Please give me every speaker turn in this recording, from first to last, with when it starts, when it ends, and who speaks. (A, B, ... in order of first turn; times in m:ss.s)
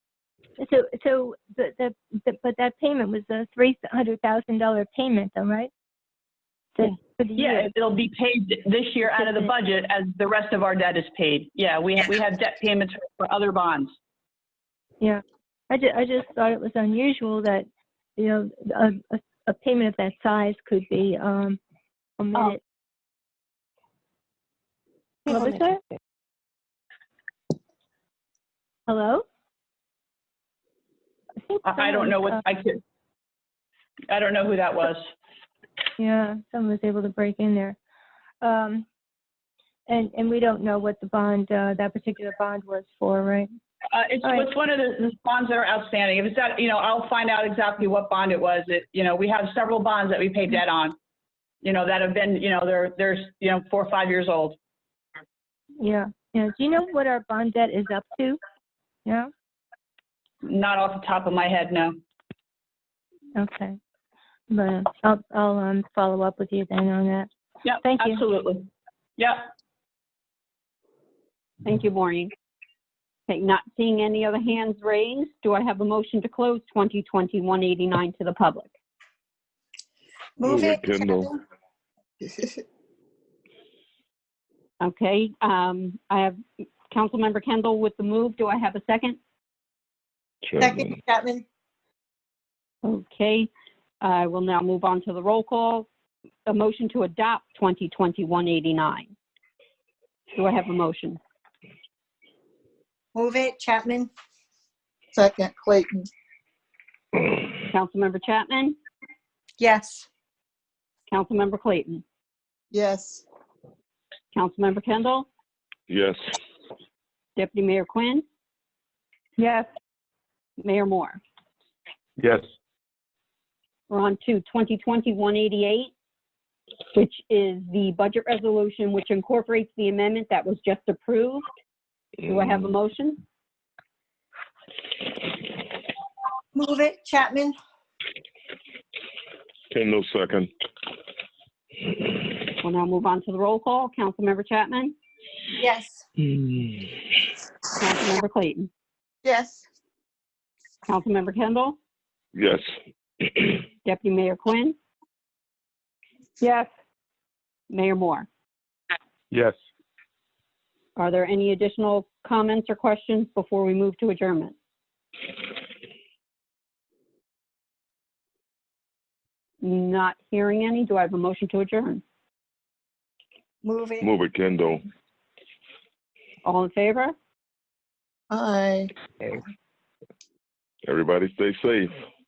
0:00.6-0:05.7 A
0:06.8-0:07.7 A
0:07.4-0:13.9 B
0:09.2-0:09.5 A
0:15.0-0:21.6 A
0:22.2-0:22.6 A
0:25.3-0:25.8 A
0:28.9-0:29.2 A
0:31.5-0:32.4 A
0:31.6-0:32.8 B
0:34.1-0:35.1 B
0:36.0-0:37.8 A
0:38.4-0:38.8 A
0:39.9-0:43.5 A
0:43.9-0:50.9 B
0:44.2-0:44.5 A
0:51.6-0:54.6 B
0:55.8-0:58.4 A
0:59.0-0:59.3 A
1:00.4-1:02.0 B
1:03.4-1:03.8 A
1:04.5-1:07.3 A
1:07.6-1:08.6 B
1:07.8-1:08.2 A
1:09.2-1:09.5 B
1:11.6-1:12.3 C
1:13.3-1:18.7 C
1:20.4-1:21.4 D
1:20.4-1:21.3 E
1:22.2-1:22.6 D
1:24.8-1:26.4 C
1:26.9-1:29.2 C
1:30.4-1:30.9 E
1:30.6-1:31.4 D
1:32.8-1:33.5 C
1:34.0-1:35.9 C
1:36.5-1:39.1 C
1:40.3-1:41.2 C
1:43.1-1:44.1 D
1:45.1-1:46.1 D
1:47.6-1:48.8 C
1:49.6-1:50.1 D
1:51.1-1:52.0 C
1:52.7-1:53.2 D
1:54.3-1:55.3 C
1:55.9-1:56.2 E
1:57.4-1:58.2 C
2:00.6-2:01.2 C
2:03.9-2:05.9 C
2:06.9-2:11.5 C
2:12.2-2:13.2 C
2:16.5-2:17.5 D
2:19.7-2:20.5 E
2:22.6-2:24.9 C
2:25.6-2:26.0 D
2:27.8-2:28.7 C
2:29.2-2:29.6 D
2:30.9-2:31.8 C
2:32.3-2:32.7 E
2:33.2-2:33.6 E
2:33.8-2:34.8 C
2:36.4-2:36.7 C
2:37.7-2:38.3 C
2:41.0-2:44.5 C
2:49.6-2:52.0 C
2:53.6-2:54.1 D
2:54.0-2:54.8 E
2:56.4-2:57.1 C
2:58.3-2:58.9 D
3:00.8-3:01.9 E